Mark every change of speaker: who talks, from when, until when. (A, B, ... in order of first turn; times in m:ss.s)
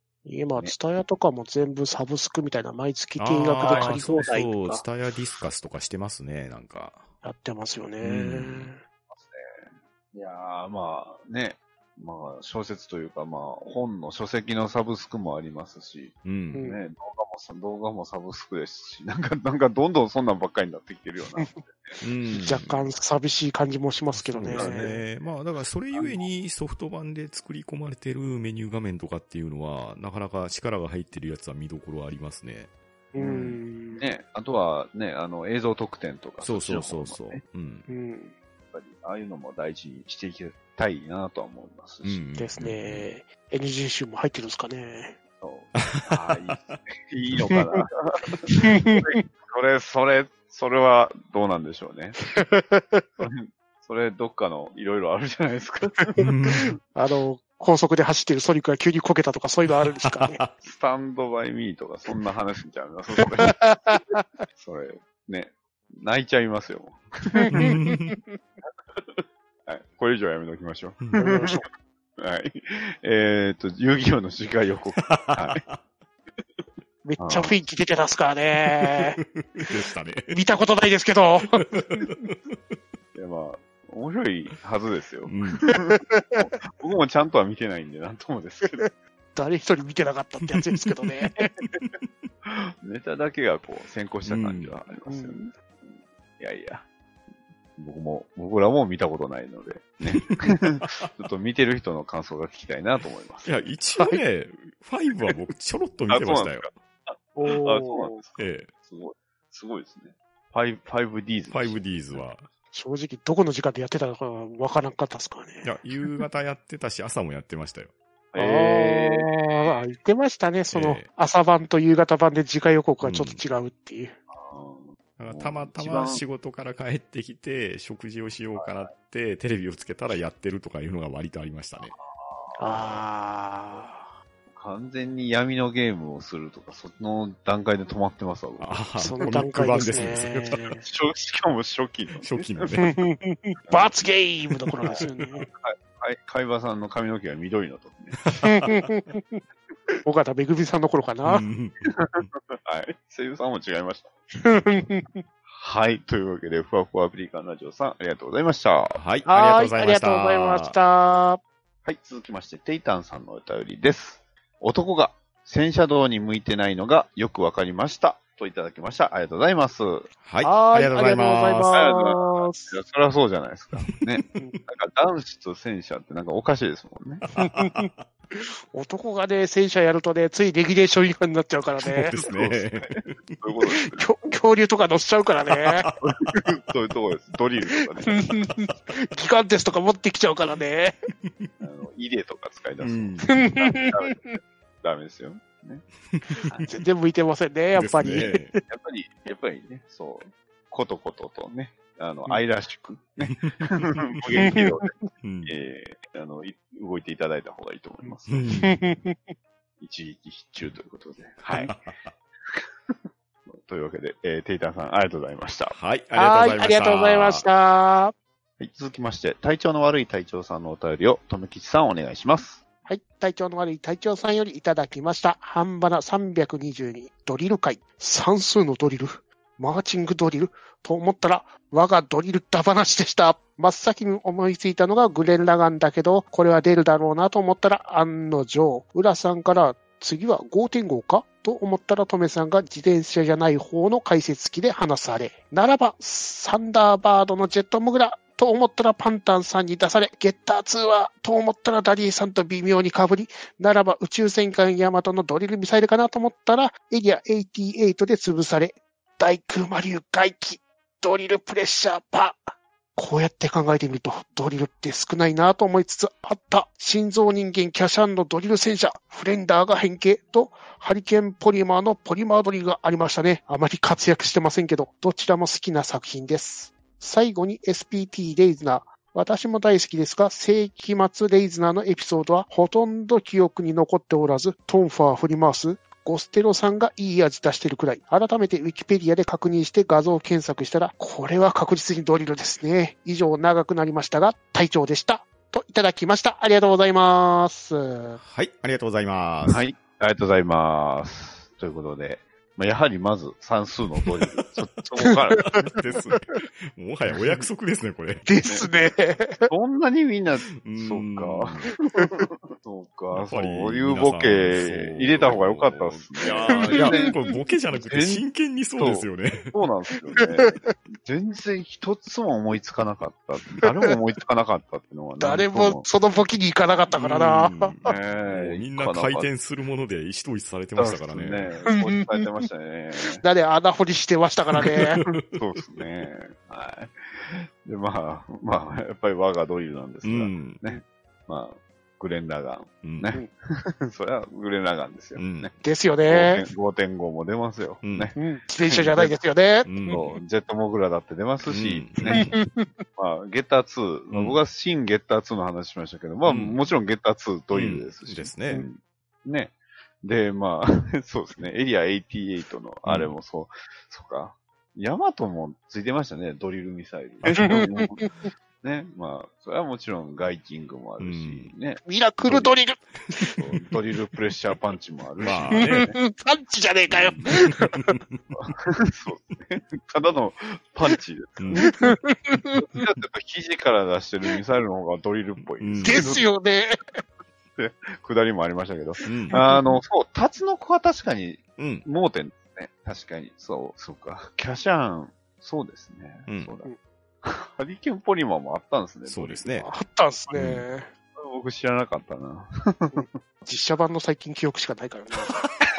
0:00.2-0:04.8 A
0:03.2-0:07.1 B
0:03.7-0:04.0 C
0:07.2-0:08.8 A
0:08.0-0:08.7 B
0:09.1-0:21.9 C
0:16.2-0:16.6 B
0:16.5-0:16.8 A
0:22.0-0:22.9 B
0:22.3-0:25.0 A
0:24.1-0:32.7 B
0:24.5-0:25.0 C
0:25.9-0:26.2 C
0:33.1-0:34.0 A
0:33.2-0:37.4 C
0:36.4-0:37.9 B
0:37.9-0:38.4 A
0:38.7-0:42.2 C
0:42.0-0:43.1 B
0:42.4-0:45.2 A
0:45.4-0:52.2 C
0:45.8-0:46.8 B
0:48.5-0:49.2 A
0:52.3-0:53.1 A
0:53.2-0:56.2 C
0:56.2-1:00.4 A
0:56.2-0:56.7 B
1:00.0-1:00.5 B
1:00.6-1:04.0 C
1:03.4-1:04.2 A
1:04.5-1:07.7 C
1:07.3-1:08.4 A
1:07.5-1:08.1 B
1:08.9-1:11.6 C
1:11.1-1:11.7 A
1:12.2-1:15.6 C
1:15.0-1:15.8 B
1:17.0-1:19.7 A
1:17.2-1:17.6 C
1:18.8-1:20.4 B
1:20.3-1:22.1 A
1:21.7-1:22.5 B
1:23.1-1:28.8 C
1:25.2-1:25.7 B
1:25.7-1:26.5 A
1:28.7-1:31.5 A
1:32.4-1:36.9 C
1:34.3-1:34.7 B
1:35.0-1:35.5 A
1:37.8-1:43.5 C
1:40.1-1:41.1 B
1:43.4-1:46.7 B
1:46.1-1:52.2 C
1:47.4-1:48.2 A
1:48.4-1:48.7 B
1:51.5-1:52.5 B
1:52.7-1:55.7 A
1:55.6-1:57.9 B
1:58.3-1:59.7 C
1:58.4-2:04.2 A
2:00.7-2:01.1 B
2:03.0-2:03.4 B
2:04.3-2:06.2 C
2:05.2-2:11.9 B
2:08.6-2:08.8 C
2:11.8-2:13.0 C
2:12.6-2:14.1 A
2:14.5-2:18.8 C
2:18.6-2:20.7 B
2:19.0-2:20.8 A
2:20.8-2:22.8 C
2:22.2-2:23.0 B
2:22.8-2:25.5 A
2:23.7-2:24.0 C
2:24.9-2:28.2 C
2:28.2-2:28.8 B
2:28.4-2:29.4 A
2:30.0-2:31.5 A
2:31.2-2:31.9 B
2:31.8-2:34.1 C
2:34.4-2:35.2 A
2:35.5-2:39.0 C
2:38.9-2:40.8 B
2:39.2-2:41.4 A
2:41.8-2:50.1 C
2:50.2-2:51.8 B
2:50.4-2:52.8 A
2:51.7-2:57.2 C
2:53.8-2:54.3 B
2:57.2-2:58.0 B
2:57.4-3:02.2 A
3:01.8-3:03.4 B
3:02.2-3:04.0 C
3:03.7-3:05.9 A
3:05.6-3:06.0 B
3:06.0-3:08.3 C
3:08.0-3:11.0 A
3:11.6-3:15.8 C
3:12.8-3:13.4 B
3:13.2-3:14.4 A
3:16.1-3:16.5 B
3:16.4-3:16.7 C
3:16.6-3:18.6 A
3:17.7-3:18.5 B
3:18.7-3:24.9 C
3:23.3-3:24.5 B
3:24.4-3:24.9 A
3:25.2-3:25.5 B
3:25.4-3:28.5 C
3:28.3-3:28.8 B
3:28.6-3:29.3 A
3:29.8-3:31.7 C
3:31.4-3:32.1 B
3:32.5-3:35.8 C
3:35.7-3:37.5 B
3:36.1-3:38.1 A
3:38.6-3:42.6 C
3:42.8-4:58.2 A
4:58.2-4:59.6 B
4:59.5-5:05.7 C
5:04.0-5:04.5 B
5:05.0-5:06.4 A
5:05.4-5:08.3 B
5:08.2-5:09.5 A
5:09.5-5:17.2 C
5:10.6-5:11.7 B
5:11.9-5:12.2 A
5:13.1-5:19.5 B
5:16.5-5:17.1 A
5:17.7-5:18.2 C
5:18.8-5:25.8 C
5:20.1-5:20.7 A
5:23.6-5:23.9 A
5:25.2-5:27.7 A
5:27.0-5:31.5 B
5:27.8-5:29.3 C
5:30.8-5:33.2 C
5:31.8-5:32.3 A
5:33.2-5:35.1 A
5:34.6-5:35.2 B
5:35.3-5:45.5 C
5:40.0-5:40.8 B
5:42.8-5:43.1 B
5:45.2-5:45.5 B
5:45.6-5:46.4 A
5:46.1-5:49.1 C
5:47.8-5:48.1 B
5:48.2-5:50.0 A
5:49.6-5:50.1 B
5:49.8-5:52.3 C
5:51.5-5:52.4 B
5:52.1-5:52.7 A
5:53.0-6:08.1 C
5:54.1-5:54.4 B
5:56.2-5:56.6 B
5:57.5-5:58.7 B
6:02.8-6:03.1 B
6:07.2-6:07.6 B
6:07.3-6:08.1 A
6:08.6-6:12.5 C
6:11.0-6:11.5 B
6:11.8-6:13.4 A
6:13.4-6:16.0 C
6:15.2-6:15.9 B
6:15.6-6:17.9 A
6:16.9-6:17.2 C
6:17.2-6:18.2 B
6:18.4-6:21.8 C
6:21.4-6:21.7 B
6:21.6-6:22.8 A
6:22.6-6:26.2 C
6:25.6-6:26.1 B
6:25.8-6:26.8 A
6:27.6-6:36.7 C
6:29.1-6:29.4 B
6:29.3-6:29.6 A
6:31.6-6:31.8 B
6:36.3-6:36.6 B
6:37.2-6:39.5 C
6:39.1-6:39.7 B
6:39.6-6:40.9 A
6:40.3-6:40.6 B
6:41.1-6:43.0 C
6:42.9-6:45.4 A